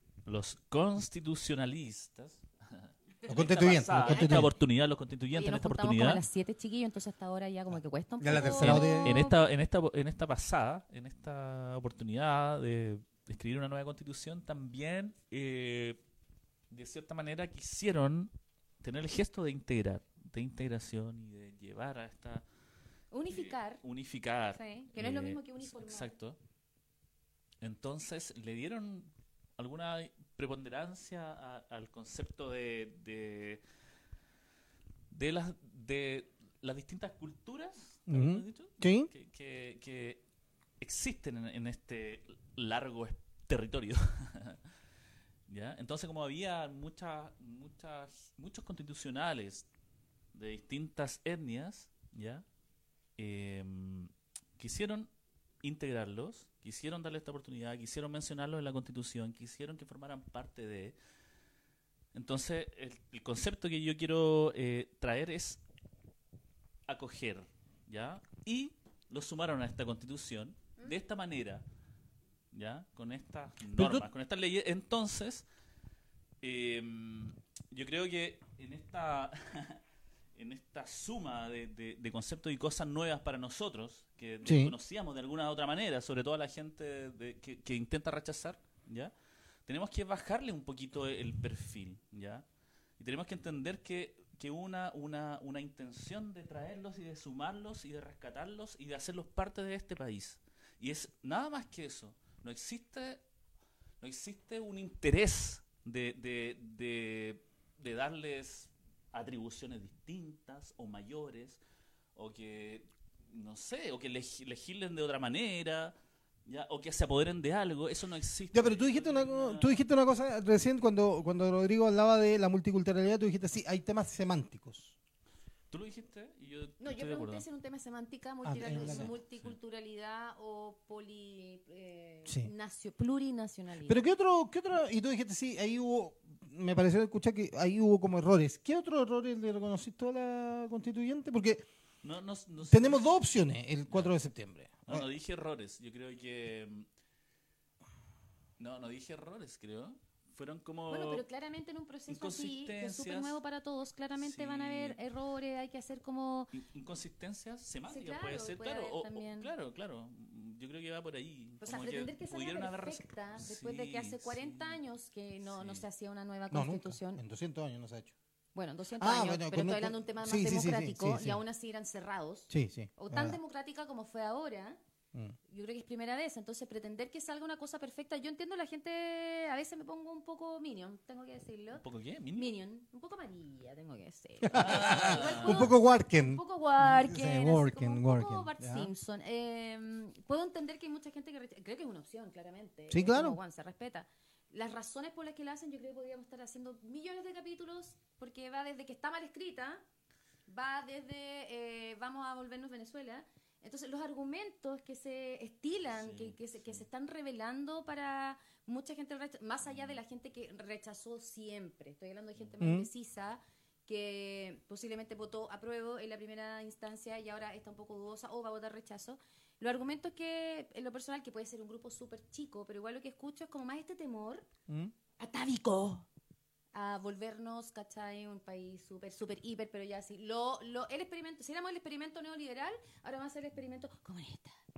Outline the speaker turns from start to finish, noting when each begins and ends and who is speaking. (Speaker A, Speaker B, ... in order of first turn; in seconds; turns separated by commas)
Speaker A: 0.2-6.2, Speaker B: 3.3-4.5, Speaker C: 4.0-4.5, Speaker C: 5.3-9.4, Speaker B: 8.2-9.2, Speaker A: 8.3-16.0, Speaker A: 16.7-22.4, Speaker C: 23.1-23.8, Speaker A: 23.3-26.4, Speaker C: 24.5-26.1, Speaker A: 27.6-33.6, Speaker A: 35.1-40.2, Speaker B: 38.1-39.1, Speaker A: 40.8-44.6, Speaker A: 45.5-49.7, Speaker A: 50.3-52.4, Speaker A: 53.2-55.1, Speaker A: 55.6-61.0, Speaker A: 62.1-65.6, Speaker A: 66.9-71.7, Speaker A: 72.5-75.5, Speaker B: 73.8-74.1, Speaker A: 76.4-79.8, Speaker A: 80.3-89.1, Speaker B: 84.4-84.7, Speaker A: 89.7-92.5, Speaker A: 93.0-103.2, Speaker A: 104.0-111.6, Speaker A: 112.2-116.0, Speaker A: 116.5-119.8, Speaker B: 118.5-125.0, Speaker A: 125.7-127.5, Speaker C: 126.8-134.0, Speaker B: 128.4-129.1, Speaker A: 128.7-129.6, Speaker B: 133.9-141.7, Speaker A: 142.0-143.1, Speaker B: 142.7-145.1, Speaker A: 143.9-144.1, Speaker A: 144.9-146.9, Speaker A: 148.6-151.2, Speaker C: 150.9-156.5, Speaker A: 152.1-153.4, Speaker A: 154.2-155.0, Speaker A: 156.5-164.8, Speaker C: 157.9-159.5, Speaker C: 161.6-167.2, Speaker A: 165.5-165.8, Speaker B: 166.5-168.2, Speaker C: 168.6-174.8, Speaker B: 169.0-171.4, Speaker B: 172.5-173.4, Speaker C: 175.5-181.8, Speaker A: 181.8-182.6, Speaker C: 182.4-199.8, Speaker B: 184.4-188.9, Speaker A: 184.5-185.7, Speaker B: 192.9-193.4, Speaker C: 200.5-224.5, Speaker A: 205.9-206.8, Speaker A: 209.7-210.0, Speaker B: 212.6-212.9, Speaker B: 224.7-224.9, Speaker C: 225.2-226.1, Speaker C: 226.7-234.6